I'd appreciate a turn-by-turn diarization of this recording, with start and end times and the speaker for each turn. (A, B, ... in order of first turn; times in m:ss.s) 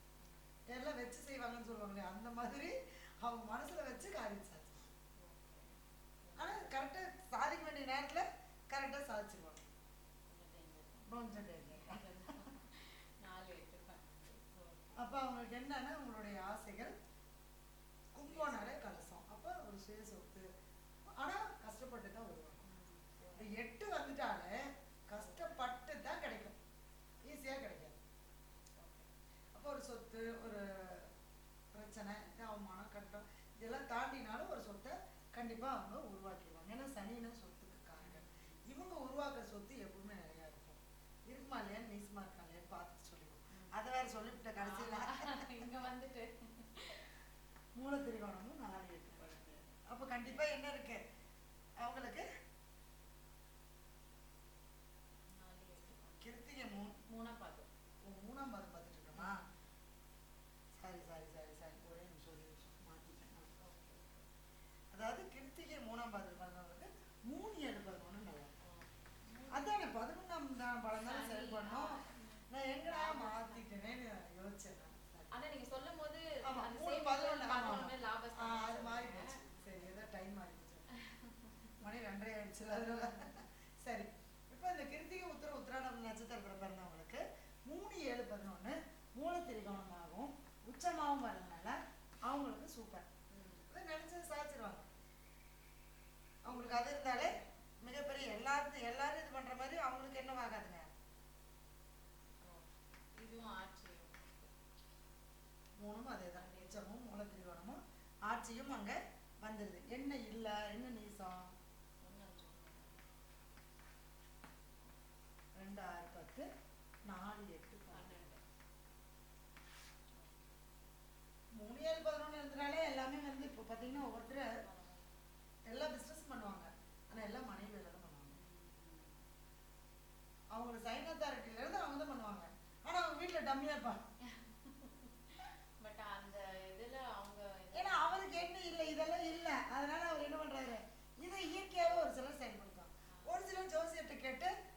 0:00.2-0:00.6 A
0:00.7-0:04.9 B
0:05.2-0:06.7 A
0:06.4-0:09.7 B
0:10.3-0:15.0 A
0:11.1-0:12.0 B
0:15.0-0:16.9 B
0:18.1-0:20.5 B
0:18.2-0:18.8 A
0:21.2-0:22.6 B
0:22.6-0:23.5 A
0:23.4-0:26.6 B
0:25.2-0:25.6 A
0:27.2-0:28.0 B
0:28.8-0:29.1 A
0:29.6-0:31.1 B
0:31.7-0:45.3 B
0:38.0-0:38.6 A
0:44.6-0:47.1 A
0:47.8-0:51.0 B
0:49.2-0:50.5 A
0:51.8-0:52.3 B
0:55.3-0:57.7 A
0:56.2-0:57.0 B
0:58.1-0:59.4 B
0:59.1-0:59.4 A
1:00.8-1:03.5 B
1:03.6-1:04.3 A
1:04.9-1:08.5 B
1:08.6-1:09.8 A
1:09.5-1:12.0 B
1:11.0-1:13.8 A
1:12.5-1:15.3 B
1:15.3-1:20.0 A
1:16.4-1:20.9 B
1:21.8-1:33.0 B
1:22.7-1:23.3 A
1:33.3-1:33.7 A
1:33.7-1:34.9 B
1:36.4-1:40.9 B
1:36.5-1:37.5 A
1:42.4-1:44.5 A
1:45.8-1:51.5 B
1:46.3-1:46.8 A
1:52.0-1:53.0 A
1:55.6-1:56.5 B
1:57.1-1:58.3 B
1:57.9-1:58.4 A
2:00.2-2:00.5 A
2:01.6-2:04.6 B
2:03.9-2:05.2 A
2:05.7-2:08.4 B
2:08.3-2:09.2 A
2:10.5-2:14.0 B
2:14.3-2:19.3 A
2:17.7-2:24.5 B
2:23.1-2:23.4 A